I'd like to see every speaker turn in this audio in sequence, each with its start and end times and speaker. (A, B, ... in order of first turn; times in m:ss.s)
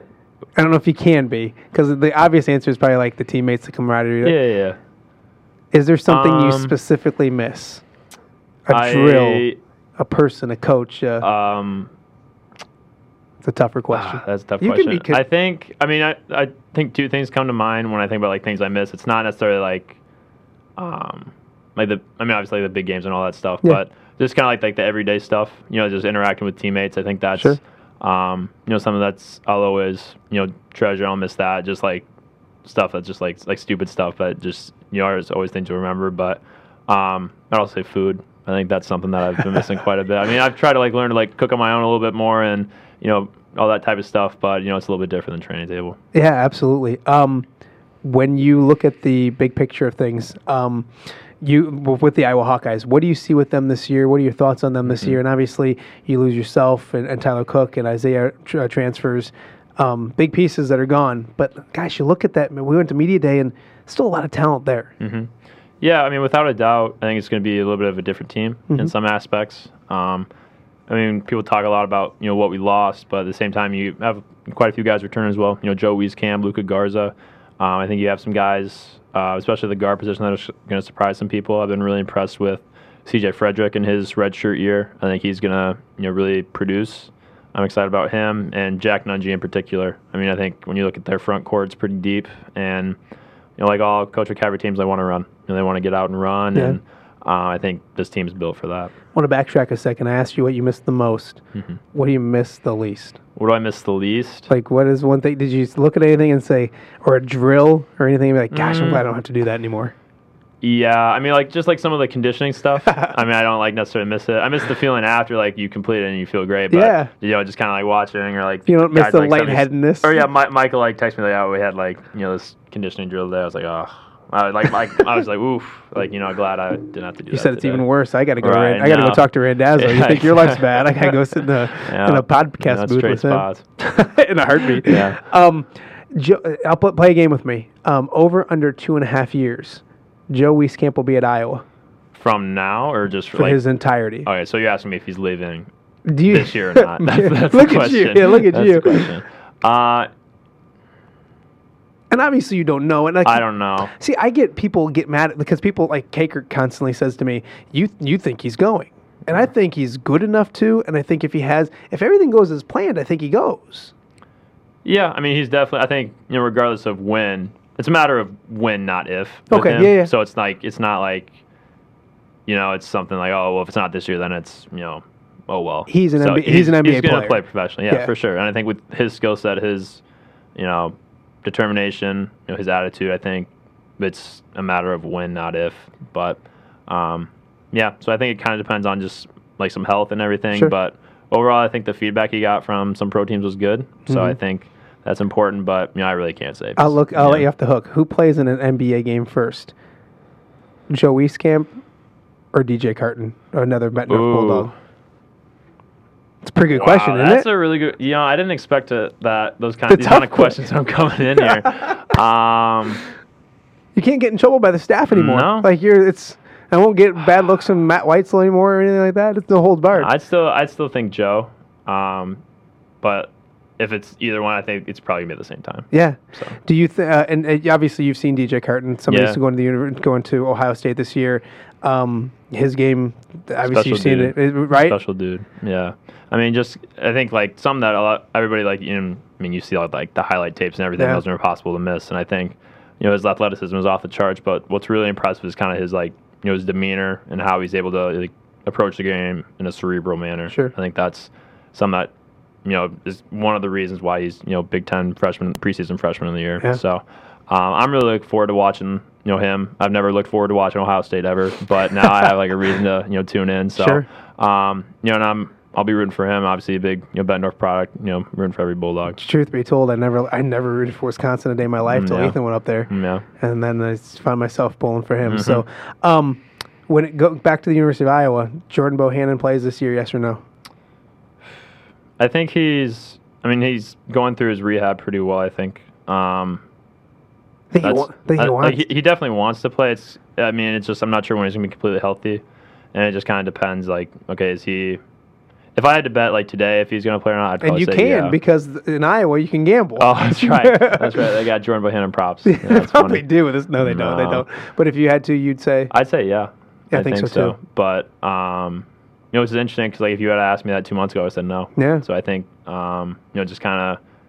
0:00.6-0:04.4 A
0:04.2-0:04.8 B
0:05.7-0:07.8 A
0:06.1-0:06.7 B
0:08.7-0:11.2 A
0:08.7-0:09.6 B
0:11.2-0:11.9 B
0:13.4-0:15.2 A
0:13.9-0:20.0 B
0:20.8-0:32.1 B
0:32.6-0:46.0 B
0:46.1-0:47.5 A
0:48.0-1:04.9 A
0:54.9-0:55.2 B
1:05.0-1:10.3 B
1:10.9-1:33.0 B
1:33.6-1:38.9 B
1:39.1-1:43.2 A
1:43.4-1:44.5 B
1:44.5-1:49.9 A
1:48.5-1:49.0 B
1:50.6-2:07.9 B
1:52.9-1:53.1 A
1:56.7-1:57.1 A
1:58.7-2:00.2 A
2:07.3-2:21.6 A
2:08.4-2:13.6 B
2:14.6-2:15.2 B
2:22.1-2:23.6 B
2:23.3-2:24.3 A
2:24.2-2:25.7 B
2:26.1-2:29.1 A
2:26.2-2:30.1 B
2:32.1-2:43.9 A
2:33.2-2:33.9 B
2:44.8-2:51.3 B
2:49.5-2:50.1 A
2:52.5-3:00.0 B
2:55.9-2:58.1 A
3:00.6-3:17.5 B
3:14.1-3:14.4 A
3:16.8-3:19.7 A
3:20.9-3:21.8 A
3:22.5-3:24.7 A
3:24.1-3:24.7 B
3:26.4-3:27.5 A
3:26.7-3:33.1 B
3:29.9-3:30.6 A
3:34.0-3:40.1 A
3:35.1-3:35.7 B
3:40.0-3:42.4 B
3:43.0-3:46.6 B
3:45.9-3:55.0 A
3:49.1-3:49.4 B
3:53.6-4:12.1 B
4:01.0-4:01.2 A
4:12.6-4:29.2 B
4:23.8-4:24.0 A
4:29.1-4:40.4 A
4:31.9-4:32.4 B
4:32.9-4:33.2 B
4:35.2-4:35.6 B
4:42.2-4:46.6 B
4:47.7-4:48.8 A
4:47.8-4:52.4 B
4:52.9-4:55.0 B
4:55.8-4:58.4 B
4:57.6-5:01.2 A
5:00.0-5:03.3 B
5:02.5-5:05.9 A
5:03.8-5:04.4 B
5:05.9-5:14.0 B
5:06.9-5:07.6 A
5:11.8-5:12.0 A